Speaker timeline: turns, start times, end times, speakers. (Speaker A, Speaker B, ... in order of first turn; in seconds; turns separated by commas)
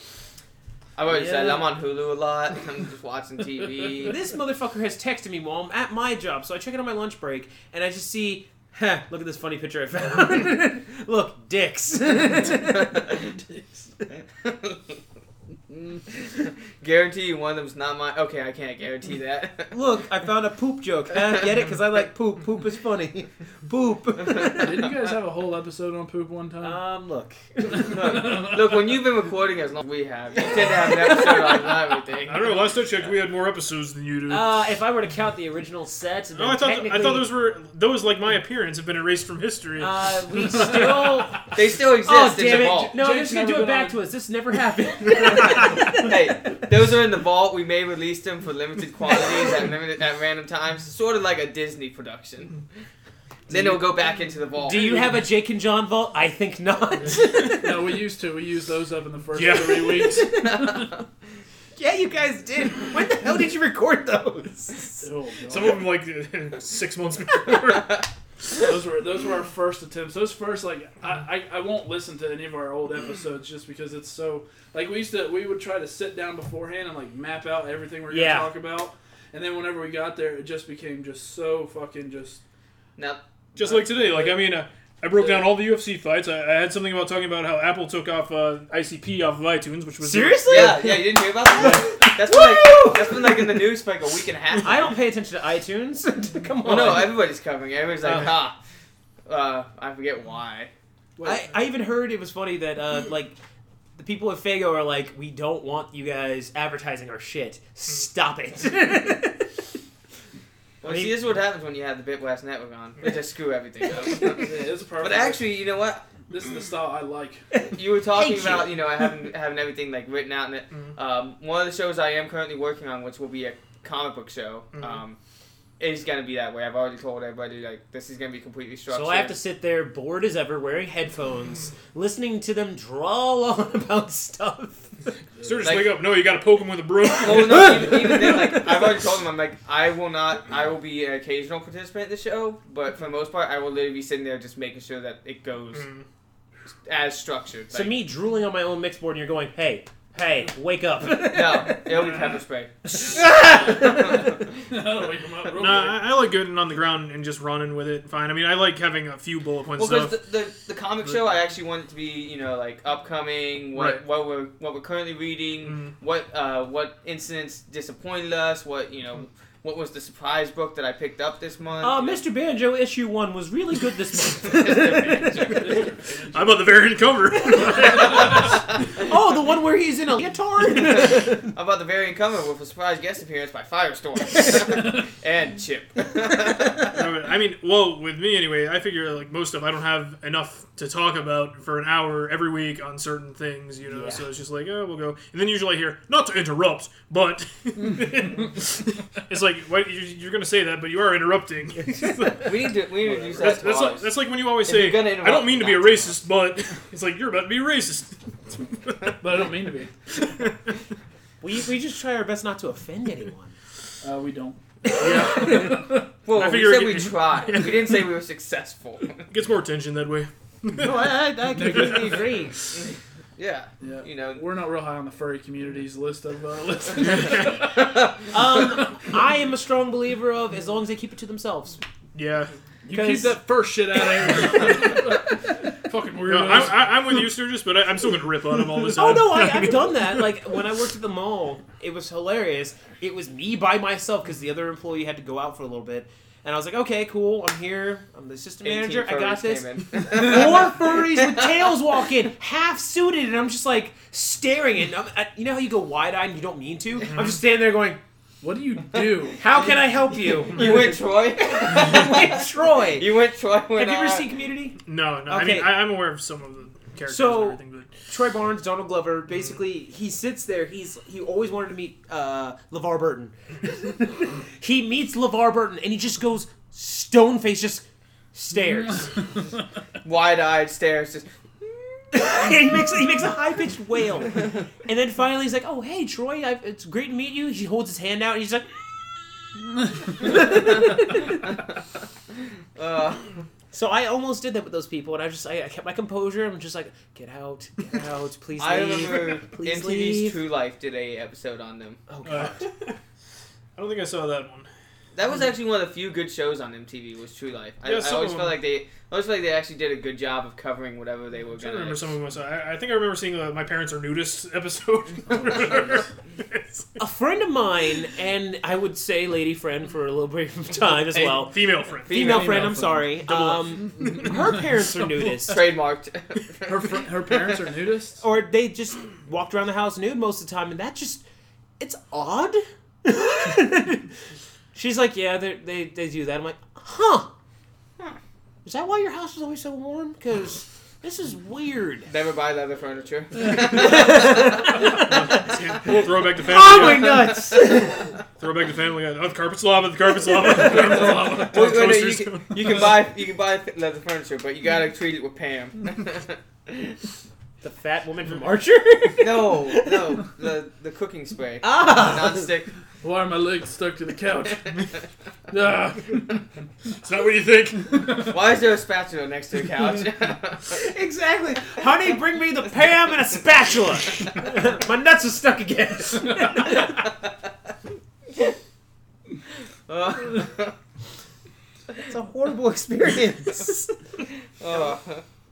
Speaker A: 0.9-4.2, Speaker B: 1.1-1.6, Speaker B: 4.0-13.2, Speaker A: 14.4-14.9, Speaker A: 15.7-19.7, Speaker B: 19.7-24.9, Speaker C: 24.6-26.8, Speaker B: 26.6-28.4, Speaker A: 27.9-32.6, Speaker C: 28.0-28.5, Speaker B: 30.9-31.6, Speaker D: 32.2-34.5, Speaker B: 34.3-37.3, Speaker D: 36.3-40.7, Speaker B: 39.8-46.2, Speaker A: 41.5-42.9, Speaker C: 42.9-44.0, Speaker A: 45.2-52.6, Speaker B: 53.5-53.8, Speaker A: 53.5-55.0, Speaker B: 54.6-57.9, Speaker C: 57.6-61.0, Speaker D: 59.3-60.2, Speaker B: 61.8-65.0, Speaker C: 65.0-65.8, Speaker D: 65.5-68.0, Speaker C: 68.5-82.4, Speaker B: 78.1-78.5, Speaker A: 83.0-83.9, Speaker D: 83.5-90.7, Speaker C: 84.0-84.3, Speaker C: 85.2-85.5, Speaker B: 90.0-93.5, Speaker A: 90.5-94.9, Speaker B: 94.6-97.2, Speaker A: 96.6-98.6, Speaker B: 98.0-98.4, Speaker A: 99.3-100.7, Speaker C: 101.2-101.5, Speaker B: 101.2-103.3, Speaker B: 104.0-109.5, Speaker A: 110.8-116.0, Speaker B: 110.8-111.1, Speaker C: 114.3-115.5, Speaker C: 116.3-117.4, Speaker B: 117.5-119.1, Speaker A: 117.7-125.2, Speaker D: 124.7-125.0, Speaker A: 125.8-129.3, Speaker B: 128.9-134.9, Speaker D: 135.4-137.9, Speaker A: 135.6-135.9, Speaker A: 137.2-145.9, Speaker B: 137.4-138.5, Speaker D: 145.7-146.0, Speaker A: 146.8-147.9, Speaker B: 147.7-151.8, Speaker A: 151.3-154.4, Speaker B: 152.9-154.3, Speaker C: 154.7-156.0, Speaker D: 155.6-160.2, Speaker A: 159.8-172.2, Speaker D: 163.7-164.0, Speaker D: 165.7-165.9, Speaker B: 171.8-175.8, Speaker A: 174.4-175.8, Speaker C: 175.6-176.6, Speaker D: 176.3-178.6, Speaker B: 178.2-181.5, Speaker A: 181.0-186.8, Speaker D: 186.9-202.6, Speaker B: 193.9-194.2, Speaker A: 202.4-206.2, Speaker C: 203.0-203.6, Speaker D: 203.3-209.1, Speaker C: 209.2-209.9, Speaker D: 210.2-210.6, Speaker B: 211.4-213.5, Speaker C: 214.0-216.0, Speaker D: 215.0-218.0, Speaker B: 215.1-215.7, Speaker A: 216.2-219.2, Speaker D: 219.3-221.1, Speaker B: 220.8-222.6, Speaker C: 221.5-222.3, Speaker A: 223.4-224.4, Speaker C: 223.8-227.9, Speaker D: 227.2-227.4, Speaker B: 228.3-231.8, Speaker D: 232.1-232.5, Speaker C: 232.8-237.0, Speaker B: 232.9-233.4, Speaker D: 236.2-240.2, Speaker B: 238.8-258.0, Speaker A: 248.6-251.4, Speaker D: 257.1-257.4, Speaker C: 258.4-259.4, Speaker B: 259.4-261.0, Speaker A: 260.4-262.4, Speaker B: 261.5-263.1, Speaker A: 262.9-264.2, Speaker B: 263.8-265.8, Speaker D: 264.9-268.1, Speaker B: 267.1-279.2, Speaker A: 280.0-281.7, Speaker B: 282.1-289.5, Speaker B: 290.1-291.4, Speaker A: 292.8-293.2, Speaker B: 293.7-300.4, Speaker A: 298.6-302.0, Speaker B: 302.1-302.7, Speaker D: 302.2-303.0, Speaker D: 303.8-304.7, Speaker A: 305.1-312.1, Speaker D: 307.8-308.6, Speaker D: 311.6-317.0, Speaker B: 317.0-321.6, Speaker D: 321.2-322.6, Speaker A: 322.1-322.6, Speaker B: 322.1-325.6, Speaker C: 322.1-323.2, Speaker D: 323.3-324.1, Speaker C: 324.0-324.3, Speaker A: 325.4-327.0, Speaker C: 326.6-328.2, Speaker B: 328.2-331.2, Speaker B: 331.8-334.1, Speaker B: 334.7-337.3, Speaker B: 338.6-342.1, Speaker A: 342.1-344.5, Speaker B: 343.5-345.4, Speaker D: 345.0-347.4, Speaker B: 346.4-348.1, Speaker D: 348.4-352.9, Speaker C: 350.5-351.6, Speaker B: 350.8-351.1, Speaker A: 350.9-356.9, Speaker B: 357.6-360.1, Speaker A: 359.2-362.7, Speaker B: 361.6-362.5, Speaker C: 363.0-364.8, Speaker C: 365.5-366.4, Speaker D: 367.0-368.3, Speaker A: 368.2-370.8, Speaker B: 370.7-377.0, Speaker A: 379.9-380.7, Speaker B: 382.1-383.9, Speaker A: 384.6-385.2